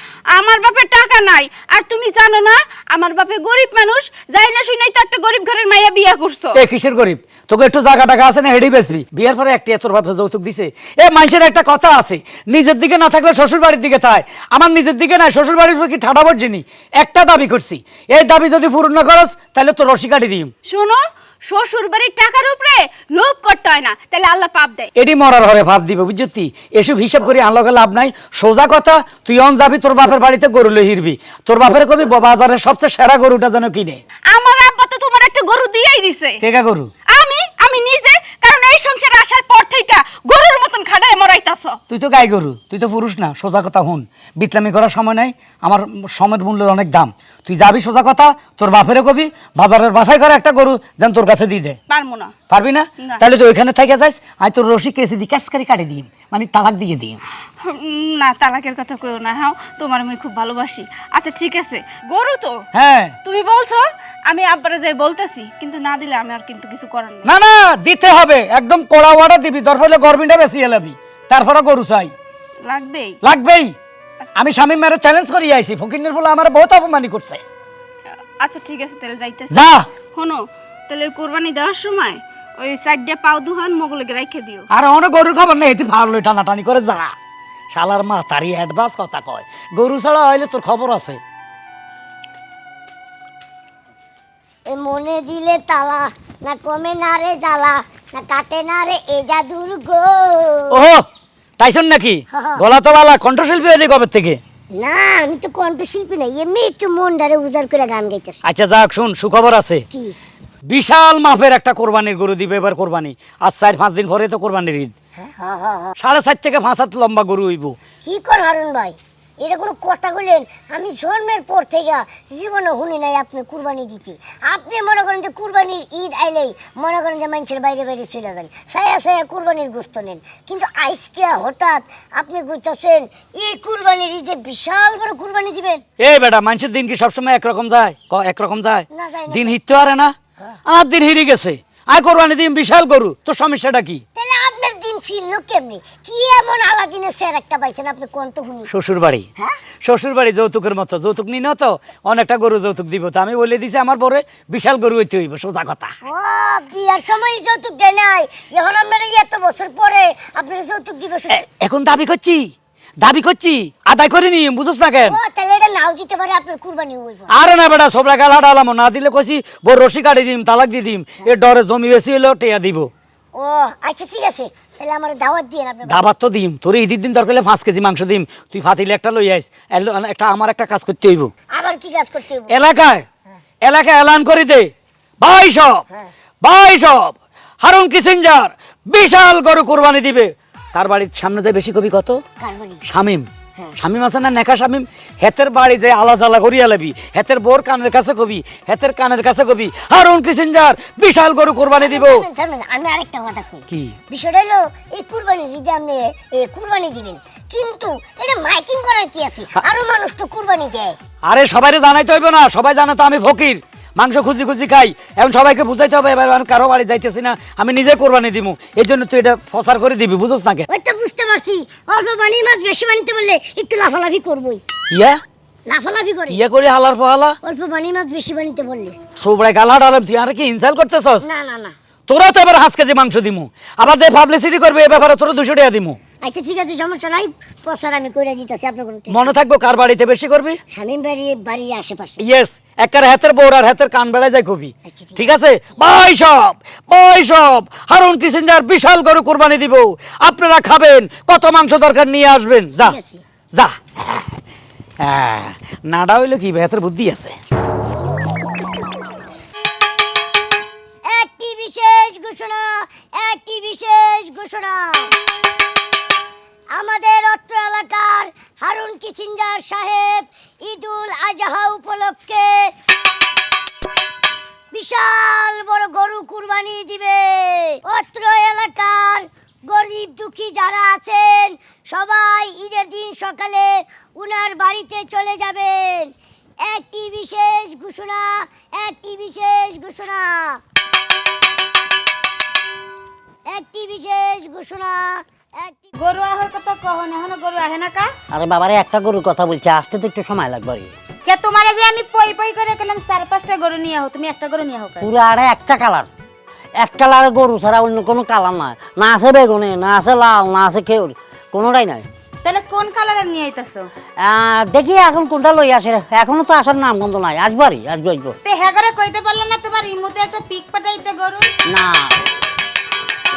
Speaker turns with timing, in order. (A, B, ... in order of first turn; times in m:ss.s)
0:00.3-0:06.6 A
0:06.6-0:20.5 B
0:20.7-0:24.9 A
0:25.0-0:34.0 B
0:34.3-0:36.4 A
0:36.4-0:36.9 B
0:37.1-0:41.8 A
0:41.9-0:51.8 B
0:51.9-0:52.3 A
0:52.5-0:57.2 B
0:57.6-1:02.6 A
1:02.7-1:03.2 B
1:03.2-1:07.3 A
1:07.2-1:12.1 B
1:12.7-1:13.2 A
1:13.2-1:13.7 B
1:14.4-1:17.4 B
1:18.4-1:24.7 A
1:19.5-1:19.9 B
1:24.7-1:27.1 B
1:27.7-1:31.2 B
1:34.7-1:40.8 C
1:40.7-1:41.0 B
1:41.6-1:44.4 B
1:42.3-1:42.7 C
1:44.8-1:48.4 C
1:48.4-1:49.8 B
1:50.7-1:54.9 B
1:55.2-1:56.0 C
1:56.0-1:57.8 B
1:58.0-2:15.8 C
2:16.0-2:20.1 B
2:18.9-2:19.6 C
2:20.7-2:24.0 B
2:24.2-2:28.7 C
2:28.7-2:29.3 B
2:29.8-2:35.9 B
2:36.0-2:41.4 C
2:41.3-2:45.2 B
2:45.0-2:47.3 C
2:47.3-2:52.9 B
2:53.4-2:56.0 C
2:55.9-3:01.3 B
3:01.5-3:02.5 C
3:02.5-3:03.0 B
3:03.6-3:05.8 B
3:06.4-3:12.2 B
3:12.4-3:12.8 C
3:12.9-3:22.2 B
3:21.8-3:31.0 C
3:23.7-3:24.0 B
3:31.3-3:40.7 B
3:40.7-3:44.6 C
3:44.9-3:45.2 B
3:45.7-3:46.4 C
3:46.3-3:47.4 B
3:47.4-3:49.0 C
3:49.2-3:51.3 B
3:51.2-3:51.8 C
3:52.1-3:56.0 B
3:56.2-3:59.4 C
3:59.1-4:00.6 B
4:00.7-4:02.2 C
4:02.2-4:13.0 B
4:04.9-4:05.3 C
4:12.8-4:13.2 C
4:13.5-4:14.2 B
4:15.0-4:17.4 B
4:21.1-4:25.1 C
4:26.7-4:32.7 C
4:34.7-4:50.6 C
4:53.5-4:55.9 C
4:56.0-4:58.1 D
4:58.3-5:00.9 E
5:01.3-5:05.1 D
5:05.0-5:06.1 E
5:06.8-5:12.1 E
5:12.4-5:13.9 D
5:14.2-5:18.4 E
5:18.4-5:21.5 D
5:21.7-5:22.2 E